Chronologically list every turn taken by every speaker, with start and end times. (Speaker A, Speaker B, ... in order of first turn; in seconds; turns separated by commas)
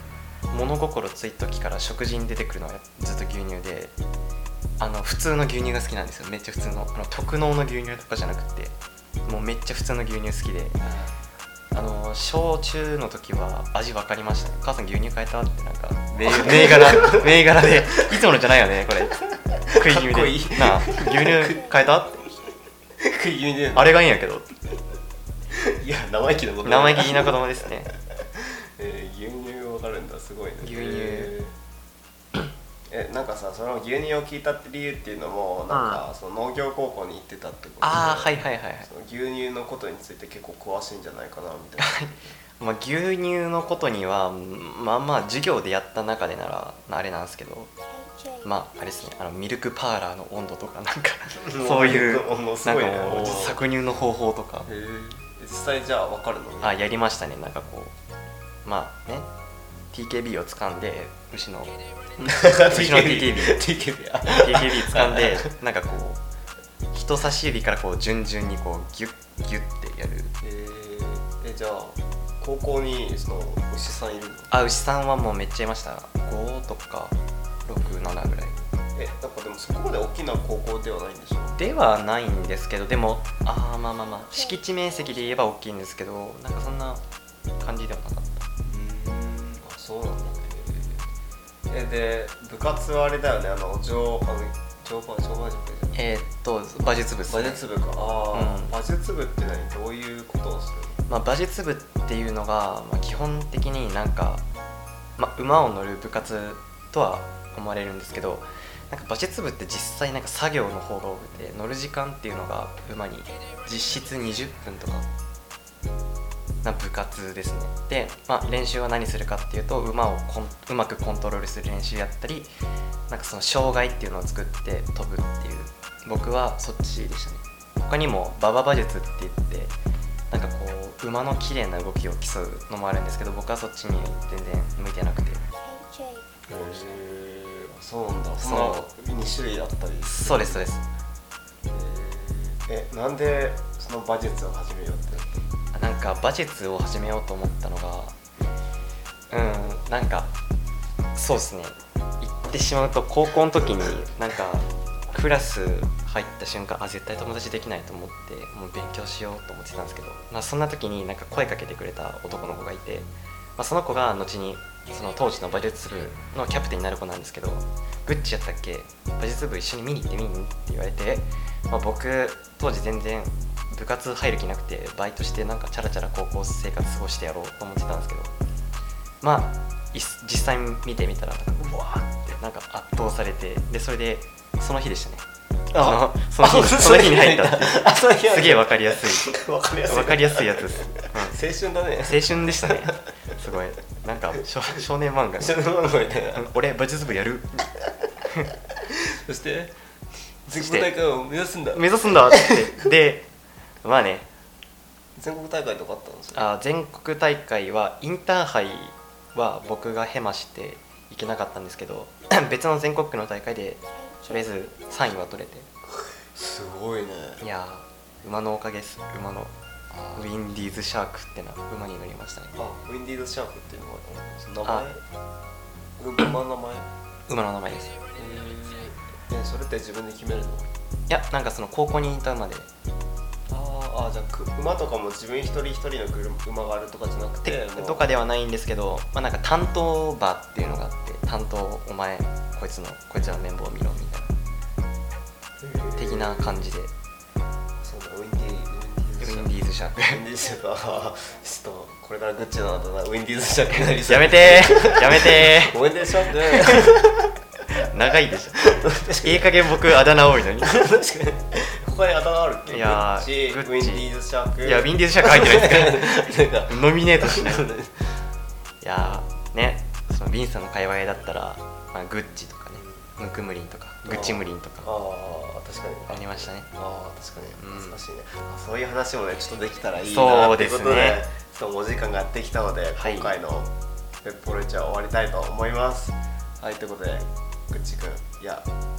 Speaker A: 0.5-3.9, Speaker A: 4.8-10.8, Speaker B: 10.8-11.1, Speaker A: 11.7-19.2, Speaker B: 16.1-17.8, Speaker B: 19.4-21.6, Speaker A: 19.7-22.3, Speaker B: 23.0-24.0, Speaker A: 23.7-24.5, Speaker B: 25.5-27.4, Speaker A: 26.6-27.9, Speaker B: 28.4-31.5, Speaker A: 30.6-31.3, Speaker B: 32.9-42.3, Speaker A: 35.7-36.0, Speaker A: 37.8-38.9, Speaker A: 41.8-47.7, Speaker A: 48.4-54.7, Speaker B: 51.5-53.6, Speaker B: 54.7-56.8, Speaker A: 56.6-57.9, Speaker A: 58.6-59.3, Speaker A: 59.9-61.7, Speaker B: 62.2-65.5, Speaker A: 62.7-63.6, Speaker A: 64.3-66.2, Speaker A: 66.9-70.3, Speaker B: 70.4-74.5, Speaker A: 74.5-78.6, Speaker B: 79.0-81.7, Speaker A: 81.5-87.0, Speaker A: 87.6-88.4, Speaker B: 88.6-91.0, Speaker B: 91.7-96.0, Speaker A: 95.9-97.6, Speaker B: 97.3-101.0, Speaker A: 98.3-98.8, Speaker A: 101.1-104.4, Speaker A: 105.2-115.1, Speaker A: 116.6-122.5, Speaker A: 123.1-129.7, Speaker A: 130.3-135.4, Speaker B: 136.5-140.7, Speaker A: 138.4-138.9, Speaker A: 140.0-140.8, Speaker B: 141.7-145.4, Speaker A: 145.7-148.1, Speaker A: 149.3-150.3, Speaker A: 151.1-178.3, Speaker A: 179.2-185.2, Speaker B: 185.7-192.9, Speaker A: 185.8-189.3, Speaker A: 189.9-191.4, Speaker A: 192.0-195.6, Speaker B: 195.4-196.5, Speaker A: 196.3-197.7, Speaker B: 198.9-199.7, Speaker B: 200.5-202.6, Speaker A: 200.5-200.9, Speaker A: 201.7-203.3, Speaker A: 203.8-204.3, Speaker B: 205.2-206.5, Speaker A: 206.3-215.7, Speaker B: 216.3-217.4, Speaker A: 217.4-219.5, Speaker B: 219.9-220.2, Speaker A: 220.1-222.5, Speaker B: 222.5-225.0, Speaker B: 226.0-226.9, Speaker A: 227.3-227.9, Speaker B: 228.2-230.7, Speaker A: 231.1-232.7, Speaker B: 233.5-238.1, Speaker A: 237.4-244.3, Speaker B: 245.6-246.7, Speaker A: 246.0-246.9, Speaker B: 247.8-257.3, Speaker A: 249.2-250.2, Speaker A: 253.8-257.0, Speaker A: 257.8-258.6, Speaker B: 258.6-259.8, Speaker A: 259.2-260.7, Speaker B: 260.6-268.2, Speaker A: 262.7-264.1, Speaker A: 264.6-267.7, Speaker A: 268.8-274.9, Speaker B: 272.8-273.0, Speaker B: 274.0-283.7, Speaker A: 276.1-276.7, Speaker A: 277.6-278.0, Speaker A: 280.0-281.2, Speaker A: 283.0-283.3, Speaker B: 284.2-288.7